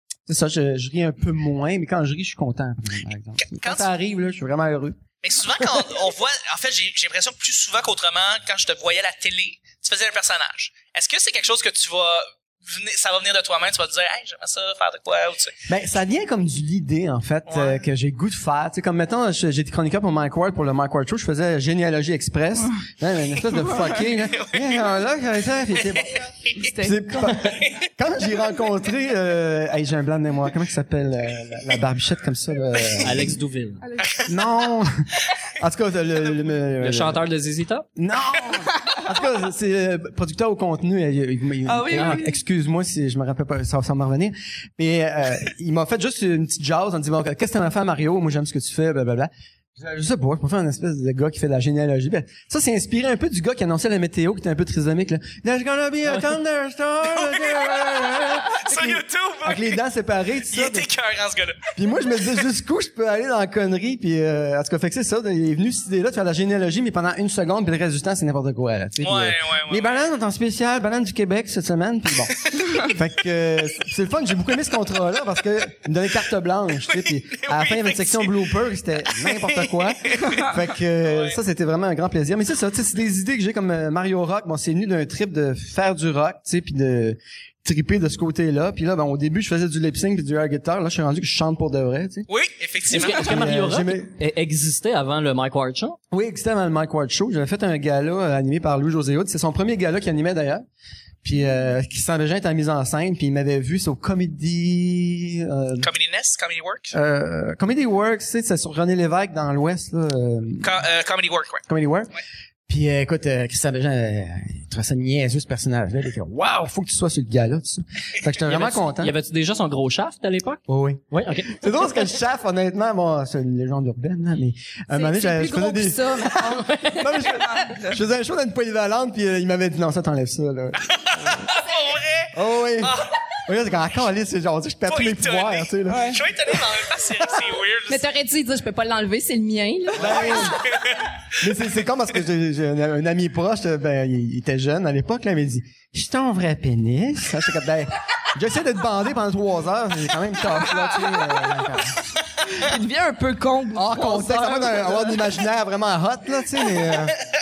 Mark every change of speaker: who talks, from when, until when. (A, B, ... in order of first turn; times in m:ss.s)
0:00.2-0:05.0 A
0:03.4-0:03.9 B
0:05.2-0:15.6 B
0:15.7-0:33.3 A
0:17.5-0:17.8 B
0:24.0-0:24.8 B
0:26.6-0:27.3 C
0:33.0-0:33.8 D
0:33.8-0:34.2 C
0:34.0-0:34.3 B
0:34.2-0:35.0 A
0:35.6-0:37.2 A
0:36.8-0:37.8 D
0:38.0-1:00.9 A
0:41.6-0:42.3 C
0:41.9-0:42.2 D
0:57.1-0:59.8 B
1:00.5-1:01.7 B
1:01.7-1:32.3 A
1:09.0-1:10.0 B
1:16.9-1:18.3 B
1:19.2-1:20.4 B
1:21.0-1:21.4 B
1:32.3-1:33.5 B
1:32.9-1:36.0 D
1:32.9-1:34.1 A
1:36.1-1:40.6 A
1:41.2-1:45.9 A
1:45.8-1:46.9 B
1:46.9-1:50.7 A
1:50.6-1:51.6 B
1:51.7-1:52.1 A
1:52.7-1:59.1 A
1:58.5-2:01.6 D
2:00.7-2:11.5 A
2:04.9-2:06.9 E
2:07.3-2:08.0 C
2:10.9-2:13.2 B
2:12.3-2:16.2 A
2:14.8-2:18.1 B
2:15.9-2:16.2 C
2:17.9-2:20.5 E
2:19.9-2:20.8 A
2:20.0-2:21.1 B
2:21.4-2:32.0 A
2:32.4-2:35.2 C
2:33.7-2:37.2 A